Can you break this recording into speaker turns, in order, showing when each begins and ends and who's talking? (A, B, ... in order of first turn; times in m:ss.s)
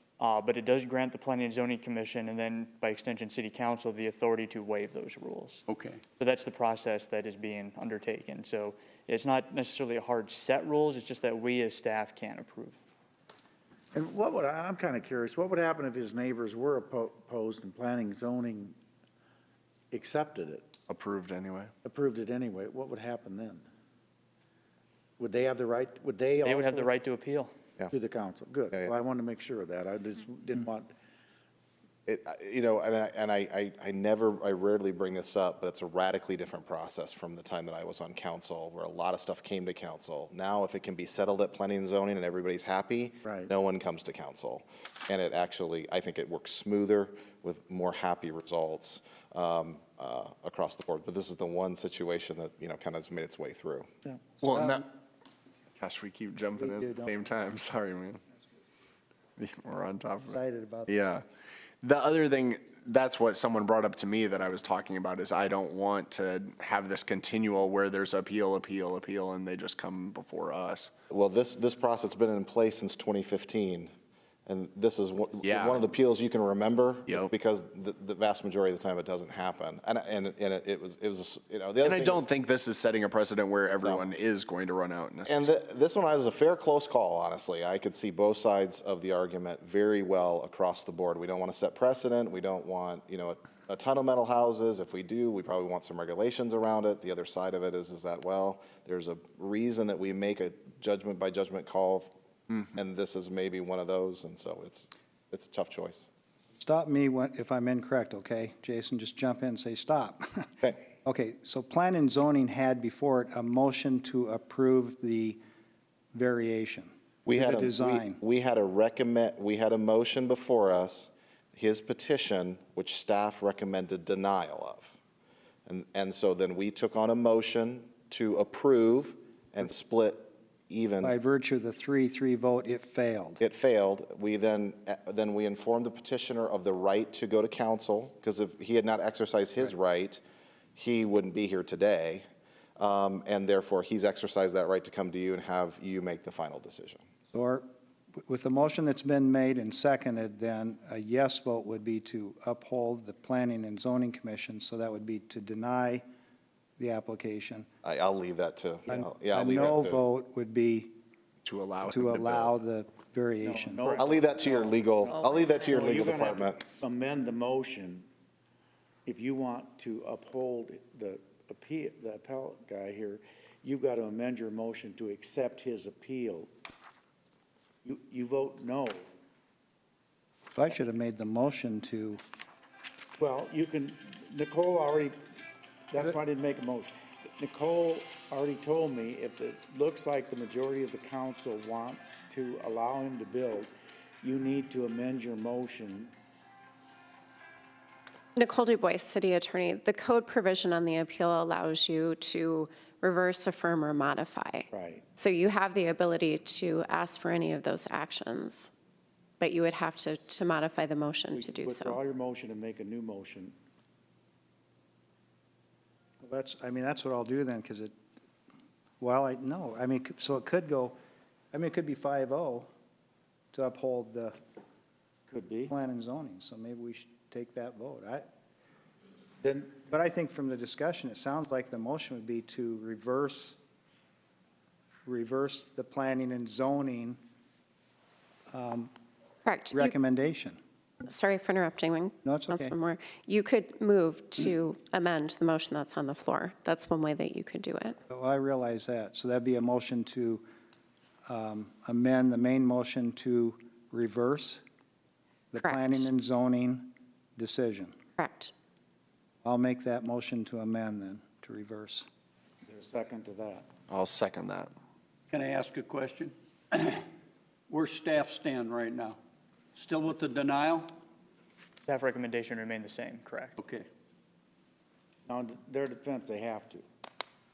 0:00.2-0:05.6 A
0:05.7-0:06.0 B
0:06.2-0:12.8 A
0:13.9-0:18.8 C
0:19.9-0:20.6 C
0:20.9-0:21.7 D
0:21.8-0:23.7 C
0:25.2-0:26.9 C
0:26.4-0:27.5 A
0:27.9-0:30.9 C
0:32.1-0:53.9 E
0:43.2-0:43.5 C
0:54.4-0:54.9 D
0:55.8-0:58.2 D
0:56.6-0:57.1 F
0:59.4-1:01.2 D
1:00.3-1:00.9 F
1:01.8-1:10.9 D
1:11.1-1:13.9 E
1:14.5-1:22.3 E
1:15.4-1:15.9 D
1:17.1-1:17.3 D
1:21.8-1:25.5 D
1:23.8-1:24.1 E
1:25.3-1:42.1 E
1:42.7-1:46.1 E
1:46.6-1:55.4 F
1:56.1-1:58.2 F
1:57.3-2:05.0 E
2:05.7-2:11.2 E
2:11.0-2:13.4 F
2:13.4-2:20.2 E
2:20.8-2:22.2 E
2:22.8-2:27.0 E
2:27.3-2:27.7 F
2:28.3-2:36.0 F
2:36.8-2:37.7 F
2:37.8-2:40.0 E
2:38.9-2:41.0 F
2:41.4-2:42.6 D
2:41.9-2:44.0 F
2:43.4-2:48.1 C
2:44.0-2:46.6 E
2:49.1-2:56.5 C
2:57.8-2:59.0 C
3:00.6-3:02.2 F
3:03.2-3:05.2 C
3:05.9-3:13.7 C
3:14.2-3:16.1 C
3:18.4-3:28.7 G
3:24.7-3:25.1 C
3:29.4-3:32.0 G
3:31.3-3:33.6 C
3:36.2-3:38.0 F
3:39.0-3:41.0 F
3:41.5-3:42.7 F
3:43.5-3:44.4 F
3:45.3-3:45.7 C
3:45.7-3:48.2 F
3:49.4-3:49.8 C
3:49.8-3:53.6 F
3:55.1-3:57.2 F
3:58.5-3:58.9 F
3:59.4-4:00.0 G
3:59.7-4:00.6 F
4:01.0-4:08.0 G
4:02.2-4:02.8 F
4:08.1-4:10.4 F
4:11.3-4:14.6 F
4:15.5-4:18.0 F
4:15.6-4:16.1 G
4:18.2-4:18.5 G
4:19.4-4:22.1 F
4:22.7-4:23.7 C
4:23.9-4:24.7 D
4:25.3-4:27.1 B
4:27.7-4:29.2 B
4:29.8-4:31.0 B
4:31.9-4:33.5 A
4:33.6-4:33.9 B
4:35.3-4:36.8 C